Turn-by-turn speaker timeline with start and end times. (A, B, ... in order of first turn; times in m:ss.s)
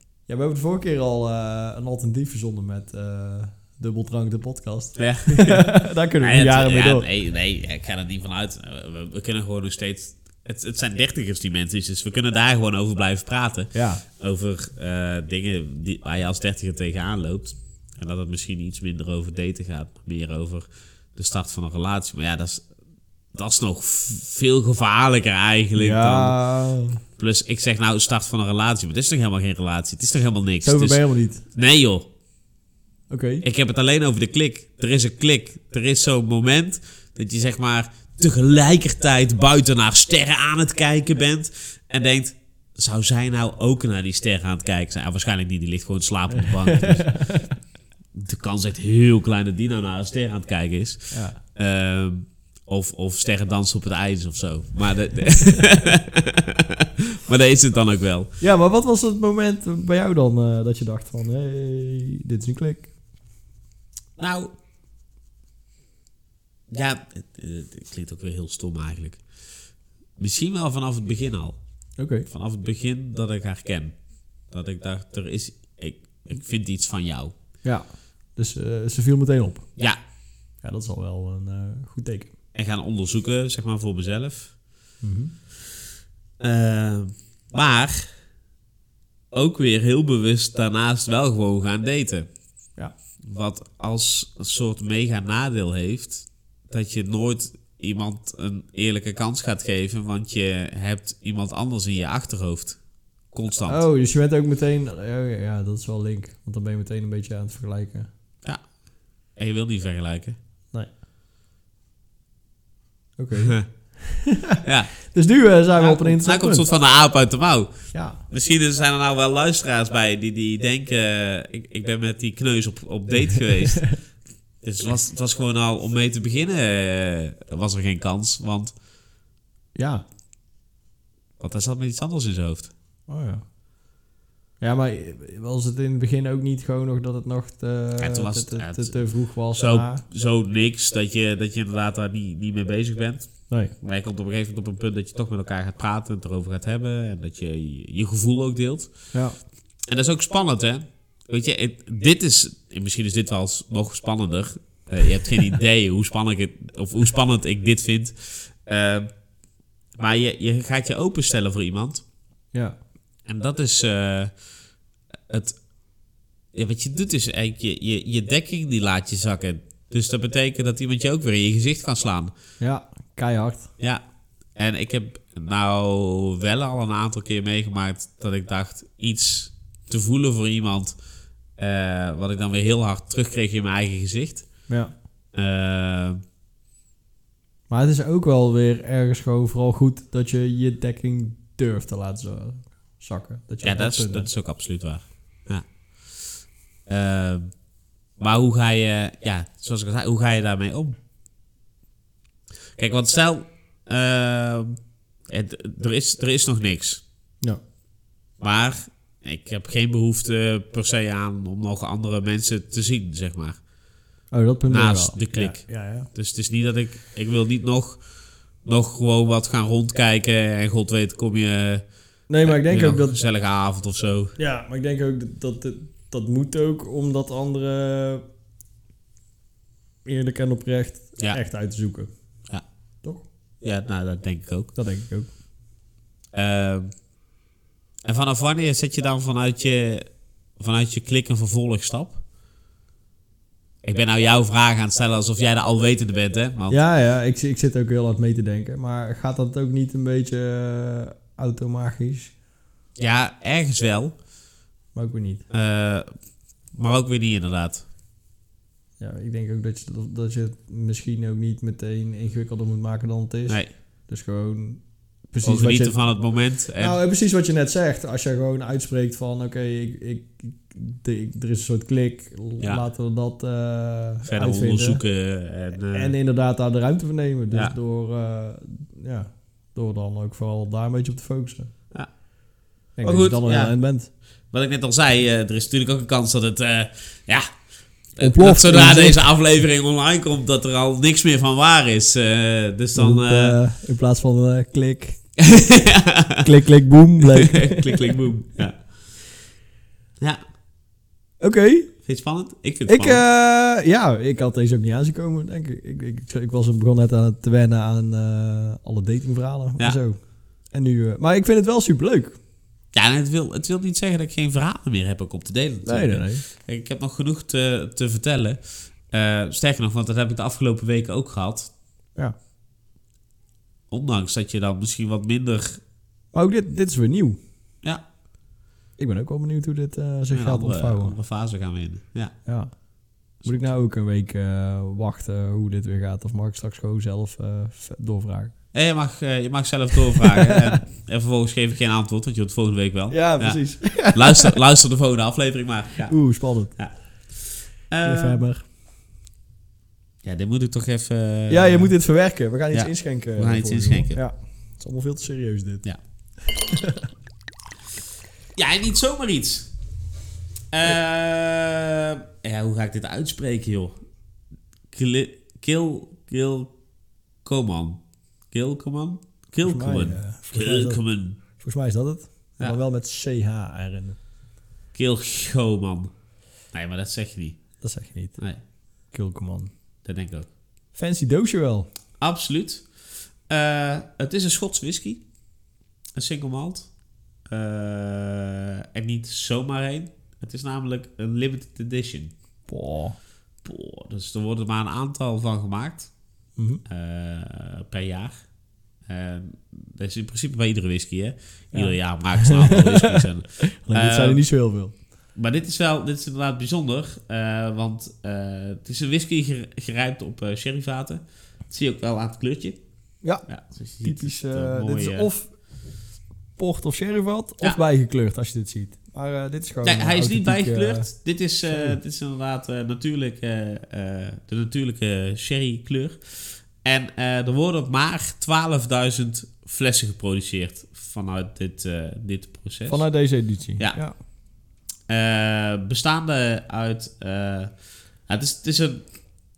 0:00.3-0:07.1 A
0:05.0-0:22.7 B
0:13.7-0:14.0 A
0:23.3-0:26.4 B
0:25.8-0:27.0 A
0:27.2-0:32.1 B
0:30.6-0:31.4 A
0:33.1-0:33.4 A
0:33.4-0:47.4 B
0:46.3-0:47.5 A
0:48.1-0:58.3 B
0:51.1-0:51.4 A
0:58.4-1:02.9 A
1:04.2-1:04.5 B
1:06.7-1:09.2 B
1:10.2-1:11.6 B
1:12.0-1:12.3 A
1:12.3-1:17.3 B
1:17.6-1:19.7 A
1:20.6-1:22.3 A
1:22.6-1:24.6 B
1:25.0-1:25.3 A
1:26.4-1:28.1 B
1:29.3-1:32.3 B
1:33.2-1:42.8 B
1:43.3-1:43.8 B
1:43.7-1:48.1 A
1:49.4-1:50.4 B
1:53.2-1:54.6 A
1:53.4-1:53.7 B
1:54.6-1:55.0 B
1:55.1-1:56.7 A
1:55.7-2:08.7 B
1:57.9-1:58.2 A
2:09.8-2:10.0 A
2:11.4-2:12.7 B
2:13.1-2:13.4 A
2:14.6-2:20.0 A
2:18.0-2:28.9 B
2:23.5-2:23.7 A
2:29.1-2:29.4 A
2:29.8-2:39.1 B
2:40.0-2:42.0 B
2:43.3-2:44.3 B
2:45.3-2:45.6 B
2:46.5-2:52.3 B
2:52.6-2:53.7 A
2:54.6-3:01.0 B
3:01.6-3:04.6 B
3:04.7-3:04.9 A
3:05.3-3:06.2 B
3:07.7-3:14.3 A
3:13.6-3:17.5 B
3:18.2-3:21.0 B
3:22.8-3:27.0 B
3:28.4-3:33.6 B
3:34.3-3:36.1 A
3:34.7-3:38.0 B
3:38.6-3:41.8 B
3:42.3-3:43.2 A
3:42.4-3:44.4 B
3:44.4-3:48.2 A
3:50.0-3:52.1 A
3:53.6-3:54.7 B
3:54.8-3:55.3 A
3:56.3-3:56.9 B
3:58.0-4:02.2 B
4:03.8-4:06.8 B
4:06.7-4:12.4 A
4:13.0-4:14.2 B
4:14.9-4:15.5 A
4:15.5-4:16.1 B
4:16.7-4:17.8 B
4:19.0-4:26.0 A
4:25.4-4:27.0 B
4:26.8-4:35.0 A
4:34.2-4:36.1 B
4:35.9-4:41.7 A
4:43.0-4:44.1 A
4:43.0-4:43.8 B
4:44.5-4:47.5 B
4:48.1-4:53.6 B
4:48.2-4:49.2 A
4:53.0-4:55.2 A
4:55.4-4:56.5 B
4:56.4-4:58.2 A
4:57.3-4:58.9 B
5:01.4-5:01.9 A
5:02.0-5:03.2 B
5:02.9-5:12.4 A
5:12.9-5:21.7 B
5:15.8-5:16.4 A
5:23.9-5:25.8 B
5:26.3-5:27.4 A
5:29.0-5:31.2 A
5:30.3-5:32.4 B
5:32.4-5:38.6 A
5:33.4-5:33.7 B
5:38.7-5:48.4 B
5:40.2-5:40.8 A
5:43.1-5:44.6 A
5:46.1-5:46.8 A
5:48.0-5:48.6 A
5:50.2-5:51.9 B
5:51.5-5:55.8 A
5:52.7-5:54.2 B
5:56.4-5:57.0 A
5:58.6-5:59.7 B
6:00.7-6:04.0 B
6:04.9-6:06.7 B
6:07.4-6:08.0 B
6:08.5-6:11.4 B
6:09.6-6:14.2 A
6:14.9-6:16.1 B
6:16.7-6:17.6 B
6:17.8-6:18.4 A
6:19.1-6:19.7 A
6:20.0-6:20.5 B
6:20.9-6:21.9 A
6:22.2-6:22.9 B
6:23.5-6:25.2 B
6:26.2-6:26.9 B
6:27.5-6:32.3 B
6:32.7-6:33.2 A
6:33.6-6:36.1 B
6:36.6-6:36.8 A
6:36.9-6:38.4 B
6:39.1-6:44.4 B
6:41.7-6:45.0 A
6:45.4-6:52.8 B
6:53.5-6:55.3 B
6:54.0-6:55.5 A
6:56.6-7:01.1 A
6:59.8-7:14.2 B
7:12.9-7:14.2 A
7:15.1-7:17.7 B
7:18.3-7:19.1 B